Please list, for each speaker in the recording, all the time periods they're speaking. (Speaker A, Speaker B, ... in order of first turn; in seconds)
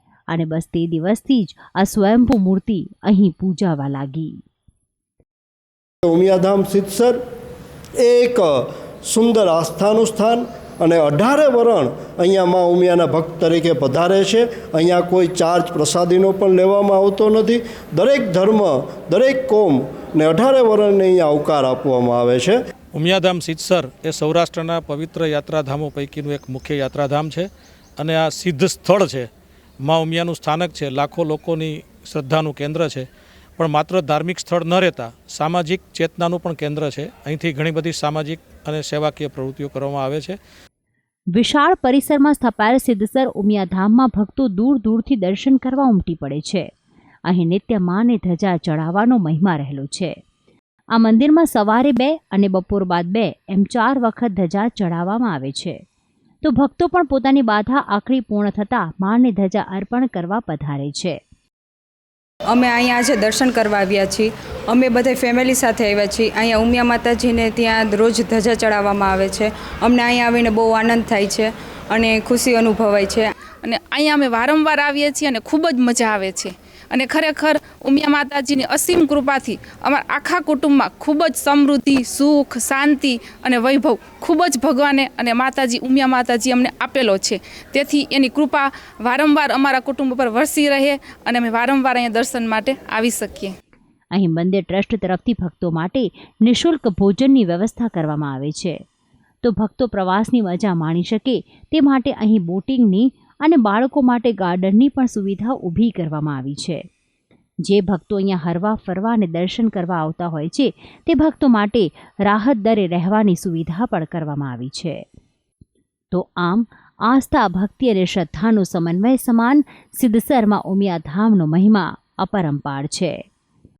Speaker A: 0.3-4.4, 41.3-46.7, 47.3-50.1, 51.0-55.8, 56.4-61.2, 94.1-98.8, 99.4-106.8, 107.7-115.0, 116.1-123.2
Speaker B: 6.0-7.2, 8.0-8.5, 9.1-22.6
Speaker C: 22.9-29.3, 29.8-33.1, 33.6-40.4
Speaker D: 62.5-73.3
Speaker E: 73.6-93.5